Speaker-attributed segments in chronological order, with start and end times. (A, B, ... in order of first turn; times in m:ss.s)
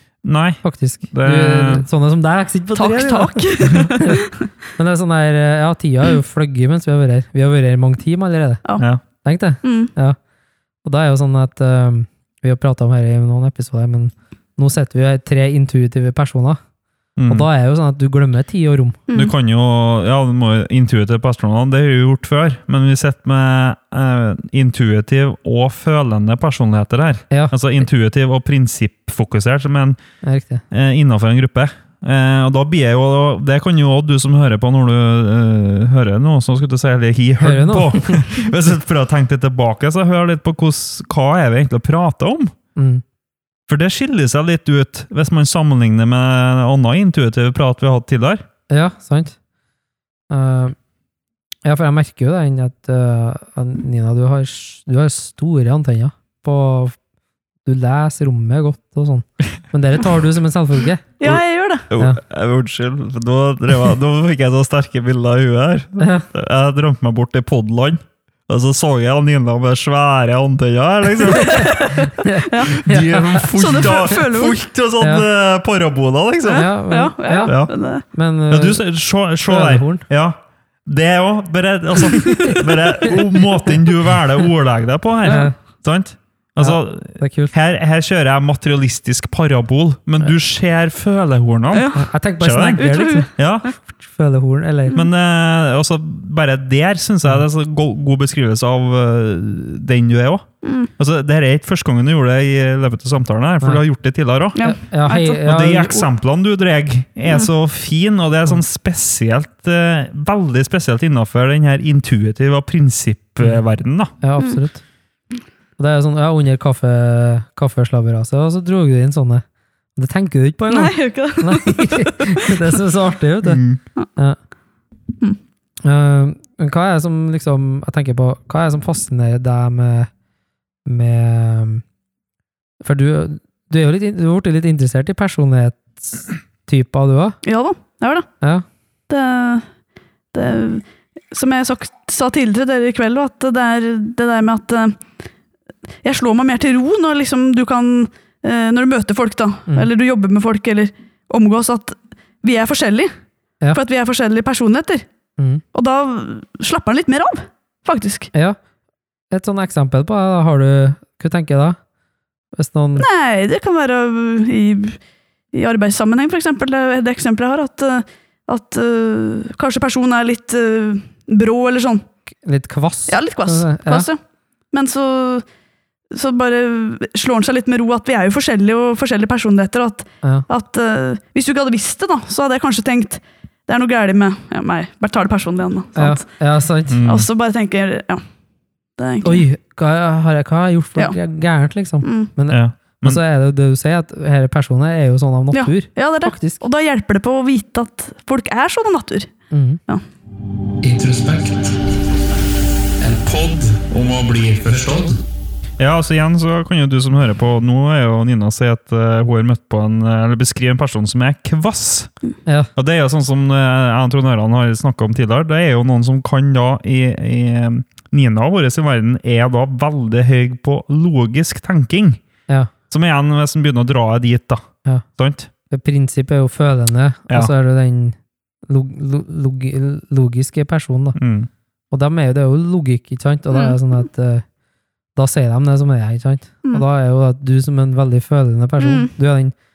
0:00.2-0:01.8 A
0:00.6-0:04.2 B
0:02.8-0:04.4 C
0:04.8-0:08.6 B
0:09.2-0:10.2 B
0:09.6-0:09.9 C
0:10.8-0:16.6 B
0:17.2-0:17.5 A
0:17.3-0:19.0 B
0:19.1-0:19.3 C
0:19.1-0:30.0 A
0:30.2-0:30.6 B
0:30.7-0:42.5 A
0:37.4-0:38.3 B
0:42.8-0:43.0 B
0:43.7-0:48.4 A
0:48.7-0:49.4 B
0:50.3-0:50.8 B
0:51.6-0:57.0 B
0:57.6-1:01.1 B
1:01.2-1:01.8 C
1:01.2-1:11.9 A
1:06.0-1:06.3 B
1:11.3-1:12.8 C
1:11.5-1:13.9 B
1:12.7-1:16.7 A
1:13.5-1:14.6 C
1:16.5-1:17.5 B
1:16.5-1:18.0 C
1:17.5-1:17.7 A
1:18.1-1:18.8 B
1:18.5-1:33.7 A
1:19.5-1:20.0 B
1:22.3-1:23.2 B
1:25.2-1:25.6 B
1:26.6-1:27.5 B
1:31.7-1:32.0 C
1:31.9-1:33.3 B
1:32.8-1:33.3 C
1:33.9-1:35.0 B
1:34.9-1:44.6 A
1:40.6-1:40.9 C
1:44.6-1:45.4 C
1:44.6-1:46.1 B
1:45.4-1:54.1 A
1:54.2-1:54.8 B
1:55.8-1:59.4 B
2:00.0-2:03.6 B
2:00.7-2:02.7 C
2:03.4-2:03.8 A
2:05.8-2:10.1 B
2:10.8-2:11.8 B
2:12.8-2:17.4 B
2:17.4-2:18.3 C
2:19.1-2:19.7 C
2:20.3-2:25.0 C
2:26.0-2:33.1 C
2:33.7-2:35.1 C
2:35.7-2:38.3 C
2:39.3-2:41.8 B
2:42.6-2:43.1 B
2:43.0-2:45.0 C
2:45.5-2:52.1 C
2:52.4-2:54.1 B
2:53.1-2:54.2 C
2:54.7-2:55.4 C
2:56.1-3:06.2 C
3:06.0-3:07.0 B
3:06.9-3:07.3 A
3:07.0-3:08.2 C
3:09.0-3:09.4 C
3:09.2-3:16.6 B
3:12.0-3:12.3 C
3:12.5-3:13.2 A
3:15.5-3:19.3 C
3:19.5-3:19.8 B
3:20.8-3:21.7 D
3:23.0-3:25.2 D
3:25.8-3:32.1 A
3:32.5-3:32.7 B
3:32.8-3:42.2 A
3:42.9-3:45.5 A
3:45.7-3:51.2 B
3:51.2-3:51.5 A
3:51.9-3:54.4 B
3:53.5-3:53.8 C
3:55.2-3:59.5 B
3:58.8-3:59.1 C